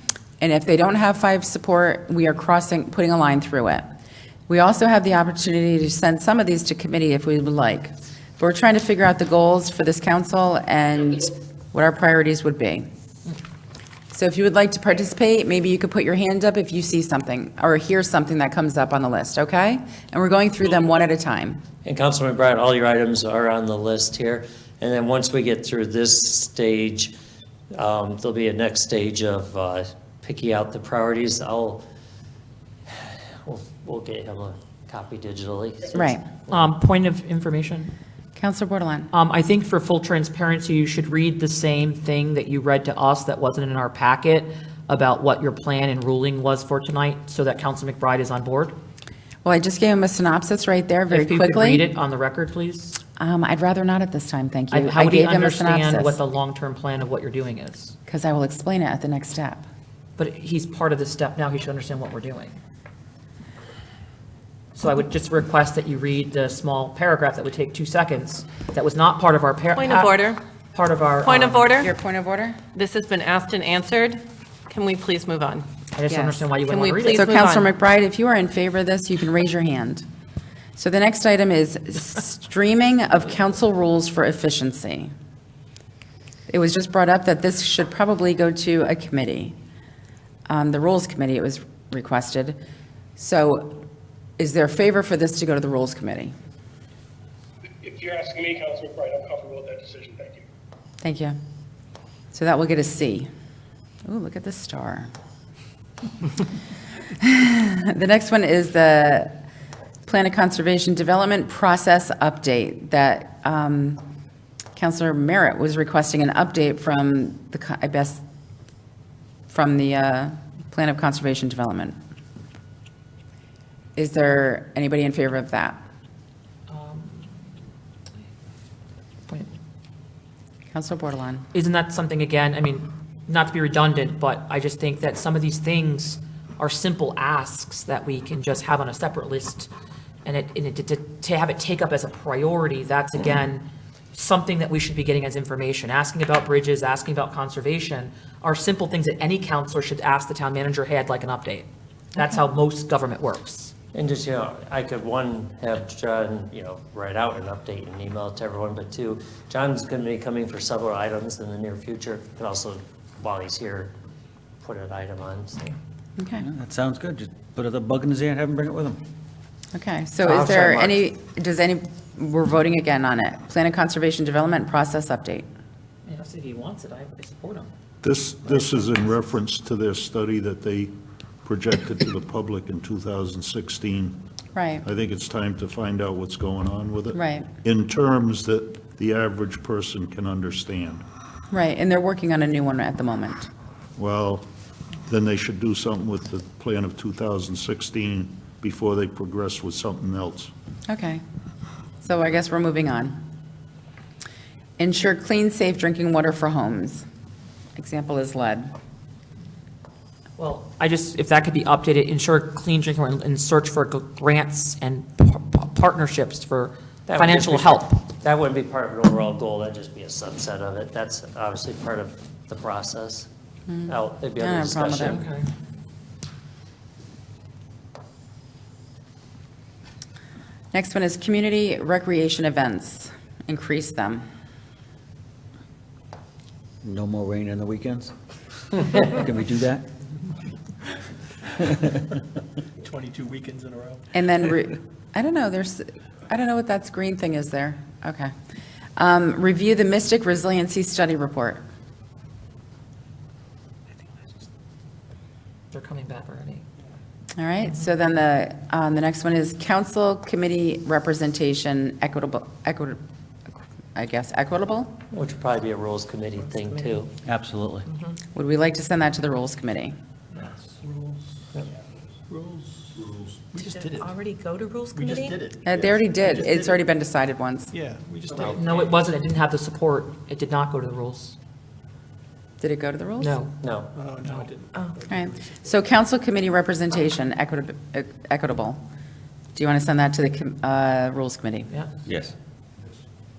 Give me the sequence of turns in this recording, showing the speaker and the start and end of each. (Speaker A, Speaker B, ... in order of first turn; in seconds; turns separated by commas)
Speaker A: 0.4-3.9, Speaker A: 4.5-12.9, Speaker A: 14.1-21.6, Speaker B: 21.8-27.1, Speaker B: 27.7-31.8, Speaker B: 32.9-36.6, Speaker A: 35.9-36.2, Speaker C: 36.5-37.9, Speaker A: 38.4-39.1, Speaker C: 39.1-48.8, Speaker A: 49.5-51.9, Speaker C: 51.1-53.0, Speaker A: 53.2-56.2, Speaker C: 54.7-57.9, Speaker A: 58.1-59.6, Speaker C: 60.2-62.6, Speaker C: 64.8-71.7, Speaker D: 69.7-70.4, Speaker D: 71.2-72.0, Speaker A: 71.8-72.6, Speaker D: 72.7-75.7, Speaker C: 75.9-77.3, Speaker A: 76.1-76.4, Speaker D: 76.7-77.7, Speaker A: 77.1-80.0, Speaker A: 80.8-85.1, Speaker A: 86.5-89.5, Speaker A: 90.5-92.6, Speaker A: 93.2-93.8, Speaker A: 94.4-96.3, Speaker E: 97.8-100.4, Speaker A: 101.0-101.4, Speaker A: 102.3-103.3, Speaker A: 104.1-105.1, Speaker A: 107.2-109.3, Speaker A: 110.1-114.0, Speaker A: 114.8-118.2, Speaker A: 119.5-122.0, Speaker A: 124.0-125.8, Speaker C: 126.7-127.4, Speaker A: 130.7-131.5, Speaker C: 131.5-139.7, Speaker C: 140.2-153.7, Speaker B: 153.9-163.9, Speaker B: 164.6-165.8, Speaker A: 166.2-166.5, Speaker F: 166.5-169.0, Speaker A: 169.7-175.5, Speaker B: 170.2-171.0, Speaker C: 176.1-177.7, Speaker G: 178.0-184.2, Speaker A: 184.6-184.8, Speaker G: 184.8-191.1, Speaker A: 187.1-187.5, Speaker A: 191.5-193.5, Speaker G: 194.0-194.5, Speaker G: 195.1-200.5, Speaker A: 200.9-201.2, Speaker A: 202.0-203.2, Speaker A: 204.8-207.1, Speaker A: 207.8-208.7, Speaker C: 210.4-218.0, Speaker B: 217.1-223.3, Speaker A: 223.7-225.2, Speaker B: 223.9-225.2, Speaker C: 225.0-225.5, Speaker A: 230.7-234.2, Speaker F: 236.8-238.1, Speaker F: 238.8-239.9, Speaker H: 242.8-244.1, Speaker A: 244.1-248.3, Speaker A: 249.0-251.6, Speaker C: 255.7-256.6, Speaker A: 257.4-263.0, Speaker A: 263.9-265.0, Speaker B: 265.1-267.1, Speaker F: 267.2-267.9, Speaker D: 267.9-268.1, Speaker A: 268.4-269.9, Speaker H: 270.3-271.7, Speaker H: 272.3-274.1, Speaker D: 273.6-275.4, Speaker H: 274.9-276.8, Speaker A: 275.6-277.7, Speaker H: 277.7-279.1, Speaker C: 278.3-281.4, Speaker A: 282.6-283.4, Speaker C: 283.2-283.6, Speaker B: 283.6-283.9, Speaker H: 283.9-285.8, Speaker A: 285.1-288.8, Speaker A: 289.6-291.7